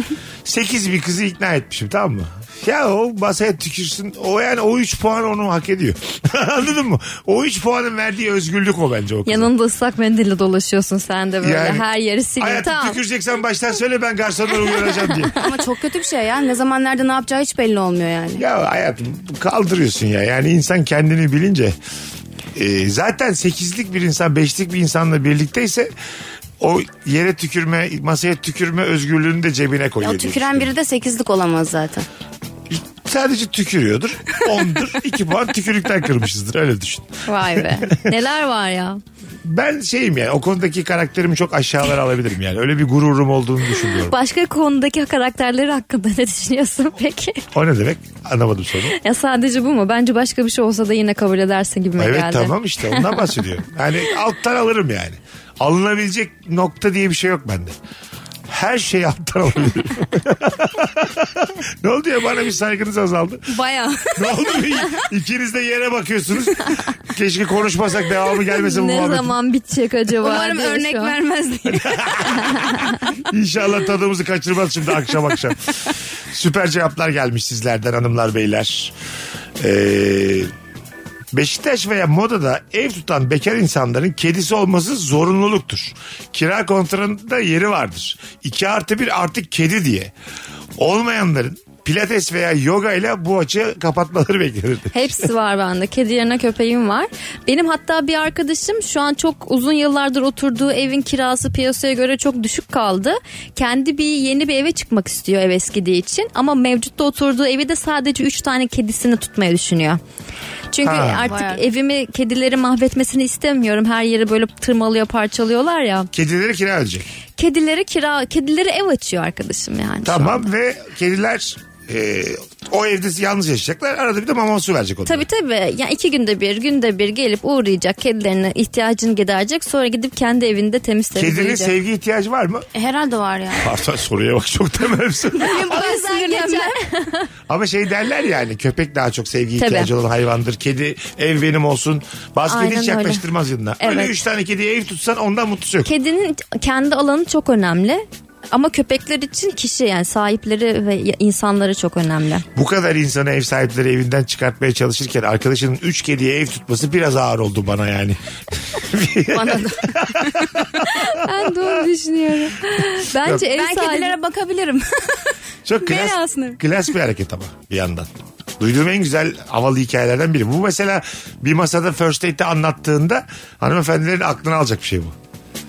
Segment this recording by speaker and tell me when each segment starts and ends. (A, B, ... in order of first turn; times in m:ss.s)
0:00.4-0:09.5 A
0:09.2-0:13.0 B
0:11.4-0:11.9 A
0:12.4-0:15.3 A
0:15.4-0:18.4 C
0:18.4-0:21.7 A
0:22.5-0:25.9 A
0:26.6-0:30.7 A
0:30.0-0:32.1 C
0:32.7-0:38.1 A
0:37.3-0:39.0 B
0:39.4-0:44.1 A
0:44.0-0:47.4 B
0:47.5-0:49.0 A
0:48.9-0:53.4 B
0:52.0-0:57.7 A
0:58.5-1:03.5 A
1:03.5-1:05.0 C
1:04.1-1:09.3 A
1:08.5-1:11.2 B
1:10.2-1:12.7 C
1:11.7-1:18.9 A
1:12.6-1:12.9 B
1:19.6-1:20.5 A
1:21.3-1:30.1 A
1:30.8-1:35.3 A
1:34.9-1:50.0 B
1:50.7-1:56.1 B
1:50.8-1:51.3 A
1:51.2-1:51.6 C
1:56.1-1:57.0 A
1:57.4-2:00.5 B
2:00.0-2:05.2 A
2:05.0-2:11.7 B
2:11.2-2:12.7 A
2:12.7-2:13.7 C
2:13.6-2:15.8 A
2:15.3-2:16.8 C
2:15.6-2:17.3 B
2:17.5-2:25.9 A
2:19.6-2:19.9 B
2:22.5-2:23.2 B
2:23.8-2:24.2 B
2:25.8-2:32.4 B
2:32.5-2:41.8 A
2:39.3-2:40.6 C
2:40.8-2:44.1 B
2:43.3-2:46.6 C
2:45.6-2:55.1 A